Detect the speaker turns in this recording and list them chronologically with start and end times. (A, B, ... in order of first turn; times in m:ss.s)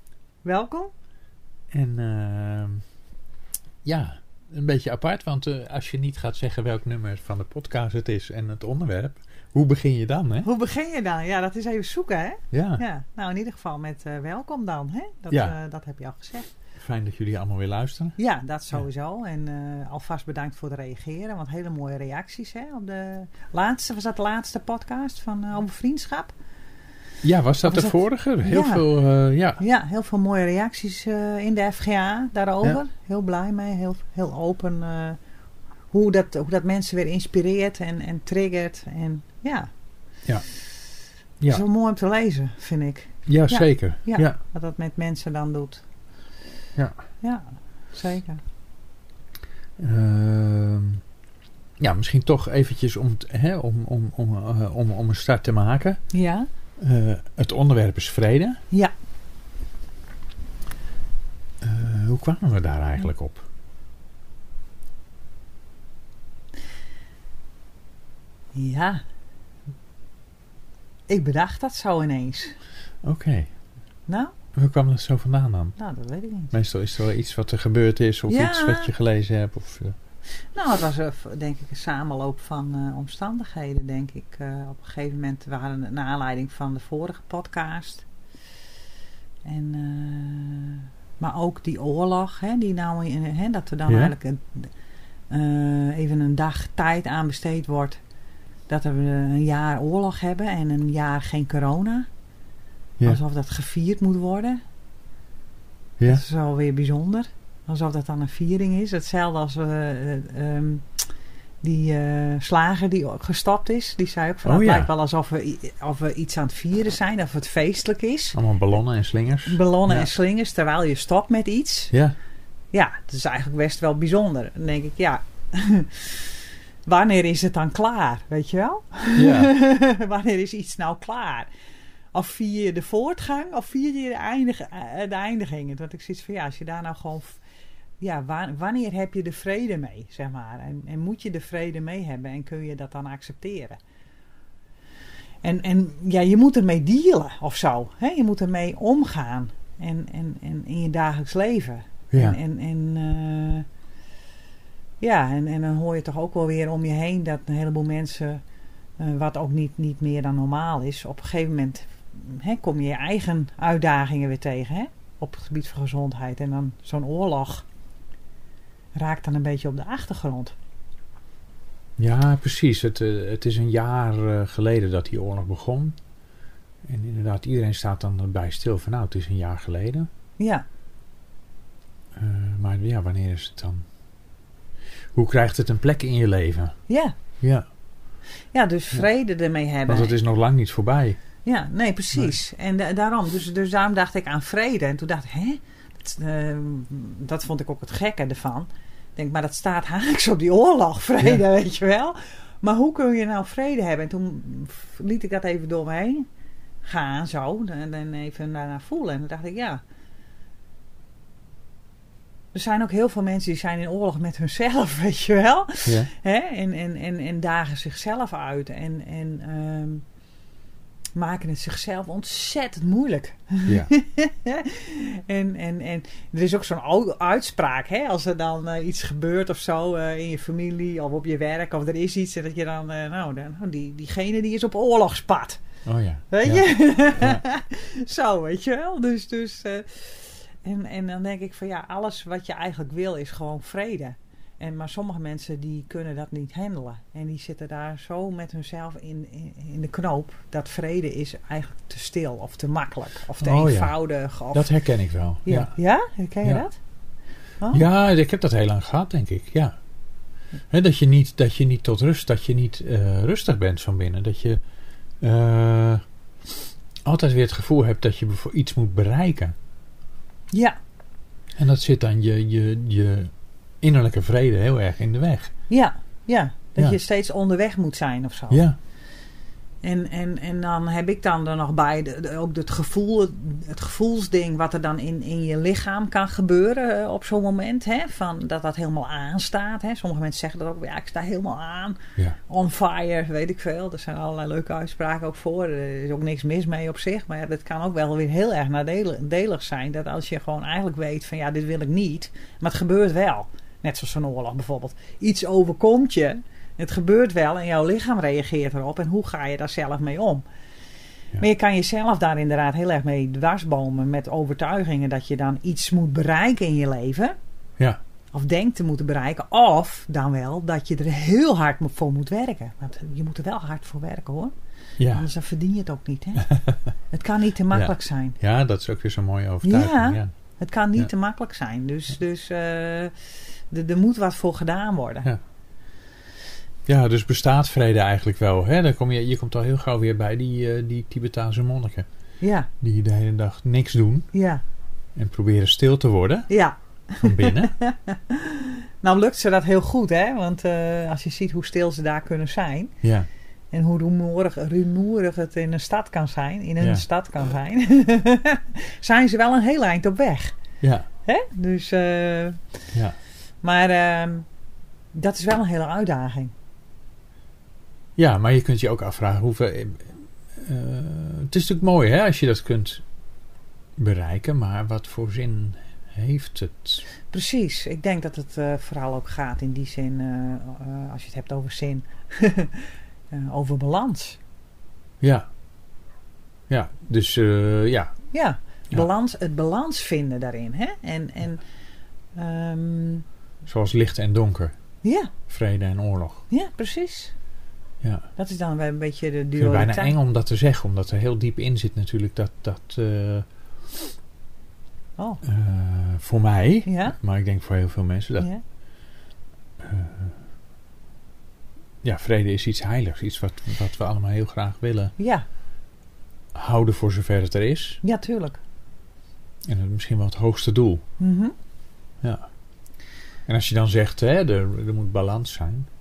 0:00.4-0:00.9 A
0:01.7-0:02.8 B
0:03.8-0:10.5 B
0:10.4-0:16.5 A
0:12.5-0:12.8 B
0:16.8-0:18.2 B
0:18.2-0:26.3 A
0:27.2-0:29.6 B
0:27.6-0:28.8 A
0:29.6-0:35.2 A
0:35.9-0:39.7 A
0:41.5-0:45.8 A
0:43.3-0:44.4 B
0:47.2-0:48.4 A
0:49.8-0:51.0 B
0:51.8-0:56.0 B
0:56.1-0:56.5 A
0:56.8-0:58.6 B
1:01.6-1:03.4 B
1:08.5-1:09.0 A
1:11.1-1:12.6 A
1:13.0-1:13.5 B
1:14.1-1:14.3 A
1:14.5-1:15.8 B
1:15.8-1:16.5 A
1:16.5-1:20.0 B
1:18.3-1:18.9 A
1:20.5-1:28.0 A
1:29.4-1:34.7 A
1:33.9-1:34.1 B
1:35.3-1:38.0 A
1:38.7-1:42.1 A
1:43.0-1:44.6 A
1:46.1-1:51.0 A
1:51.6-1:58.4 A
1:54.4-1:54.9 B
1:58.3-2:00.1 B
1:59.4-2:01.9 A
2:02.7-2:06.3 A
2:06.8-2:11.5 A
2:09.1-2:09.5 B
2:12.1-2:17.4 A
2:18.0-2:23.8 A
2:25.4-2:33.6 A
2:32.1-2:32.4 B
2:35.0-2:38.4 A
2:39.0-2:47.6 A
2:48.9-2:50.5 A
2:52.0-2:55.9 B
2:56.8-3:00.1 B
3:00.4-3:00.6 A
3:02.2-3:03.8 B
3:05.1-3:06.7 B
3:06.9-3:07.1 A
3:08.5-3:10.2 A
3:09.9-3:11.2 B
3:11.4-3:26.2 A
3:26.8-3:29.8 A
3:32.5-3:40.0 A
3:35.8-3:36.1 B
3:41.1-3:55.6 A
3:55.8-3:57.4 B
3:56.3-4:14.7 A
4:13.4-4:13.9 B
4:14.5-4:15.7 B
4:15.4-4:16.8 A
4:17.6-4:17.8 A
4:17.7-4:19.8 B
4:20.7-4:24.6 B
4:25.2-4:26.0 B
4:27.0-4:29.5 B
4:31.6-4:33.3 B
4:33.8-4:35.5 B
4:35.7-4:38.7 A
4:38.5-4:38.8 B
4:39.8-5:10.4 A
5:11.4-5:17.3 A
5:18.3-5:24.5 A
5:25.0-5:25.3 B
5:25.1-5:26.5 A
5:27.1-5:28.4 A
5:27.7-5:30.3 B
5:29.6-5:33.1 A
5:33.7-5:35.3 A
5:36.9-5:42.0 B
5:42.4-5:42.7 A
5:42.8-5:44.3 B
5:44.3-5:44.6 A
5:45.2-5:46.5 B
5:46.5-5:52.9 A
5:47.2-5:47.7 B
5:53.0-5:53.3 B
5:53.7-6:00.6 A
5:56.8-5:57.0 B
6:00.8-6:01.0 B
6:01.2-6:02.6 A
6:03.6-6:04.4 A
6:05.1-6:06.5 A
6:08.2-6:13.0 B
6:14.0-6:17.0 B
6:17.3-6:24.4 A
6:25.2-6:25.4 B
6:26.7-6:28.1 B
6:28.3-6:31.6 A
6:32.4-6:33.2 A
6:33.6-6:34.7 B
6:35.0-6:35.3 A
6:35.5-6:36.4 B
6:36.5-6:37.3 A
6:38.0-6:38.3 B
6:38.4-6:40.1 A
6:39.6-6:43.4 B
6:45.4-6:48.5 B
6:46.8-6:47.2 A
6:49.8-6:50.3 B
6:52.0-6:55.1 B
6:55.2-6:55.4 A
6:56.5-6:58.0 B
6:58.0-6:58.6 A
6:59.6-7:01.0 B
7:01.2-7:01.5 A
7:02.2-7:02.5 B
7:03.5-7:05.9 B